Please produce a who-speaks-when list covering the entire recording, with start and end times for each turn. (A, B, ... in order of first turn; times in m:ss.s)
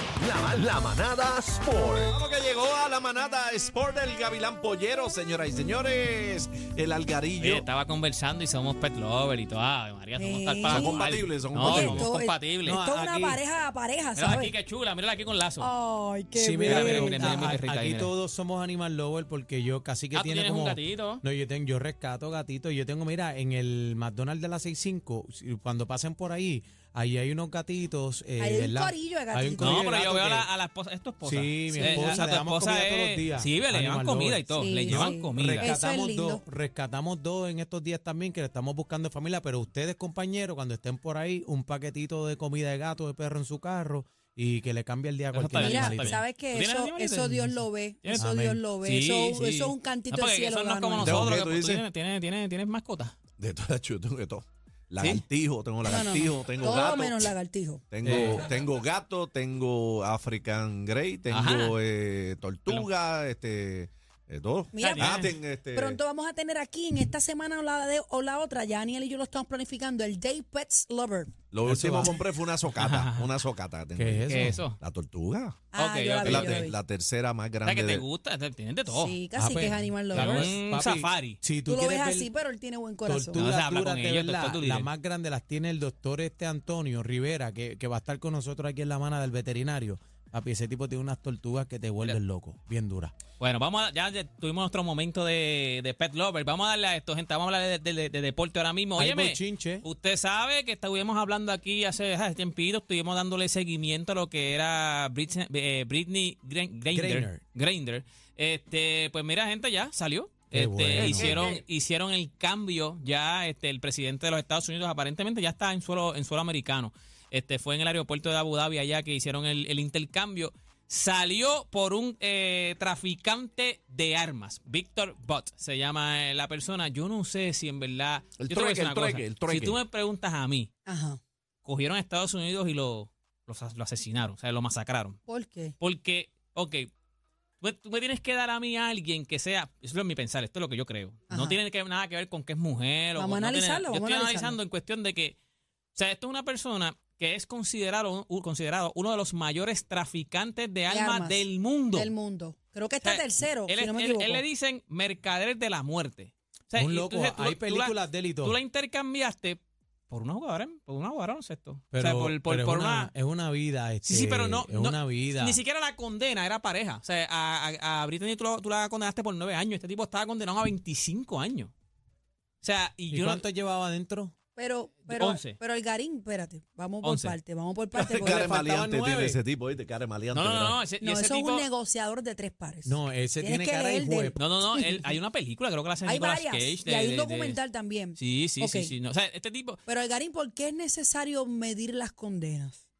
0:00.2-0:02.1 A
0:02.1-0:07.7 B
0:07.4-0:12.8 C
0:10.2-0:14.5 D
0:10.7-0:12.1 B
0:12.6-0:13.4 E
0:14.2-0:15.7 C
0:15.6-0:17.6 D
0:16.3-0:30.5 E
0:16.6-0:18.1 C
0:20.1-0:21.2 C
0:28.4-0:29.9 D
0:29.6-0:35.7 C
0:31.2-0:46.2 E
0:31.8-0:32.2 D
0:34.6-0:36.4 D
0:45.3-0:47.5 C
0:45.6-0:51.2 D
0:47.3-0:47.6 E
0:48.2-0:48.6 E
0:48.8-0:53.2 C
0:51.0-0:51.8 B
0:53.4-0:57.3 B
0:55.9-0:57.8 D
0:57.9-1:06.0 B
0:58.0-0:58.5 E
1:01.3-1:01.8 C
1:04.7-1:11.3 D
1:04.8-1:05.4 C
1:11.5-1:15.6 B
1:11.6-1:12.2 E
1:12.8-1:13.4 C
1:14.0-1:14.6 E
1:14.3-1:14.8 C
1:15.7-1:16.8 D
1:15.8-1:16.7 C
1:16.2-1:18.0 B
1:17.6-1:19.2 C
1:18.9-1:20.5 D
1:19.4-1:22.3 E
1:20.1-1:21.4 C
1:21.7-1:23.5 D
1:23.0-1:33.1 E
1:23.3-1:24.9 C
1:33.4-2:10.7 C
1:39.0-1:39.8 E
1:46.9-1:47.4 E
1:50.5-1:51.3 E
1:51.0-1:51.6 D
2:08.4-2:09.8 B
2:10.9-2:11.2 D
2:11.6-2:15.2 C
2:15.3-2:15.8 D
2:15.8-2:16.9 C
2:17.6-2:25.4 C
2:21.3-2:21.6 D
2:23.2-2:24.6 D
2:26.0-2:32.1 C
2:30.9-2:34.4 D
2:33.0-2:43.1 C
2:36.8-2:38.6 E
2:41.9-2:45.6 E
2:44.1-2:51.7 C
2:52.6-2:53.4 C
2:53.1-2:54.3 E
2:54.6-2:58.5 D
2:55.1-2:55.6 C
2:57.0-2:57.4 C
2:58.0-3:00.8 B
2:58.1-2:59.4 E
3:00.3-3:01.7 C
3:01.0-3:05.1 D
3:02.8-3:04.5 E
3:04.4-3:07.6 C
3:06.0-3:08.9 D
3:08.2-3:09.8 C
3:09.9-3:12.8 D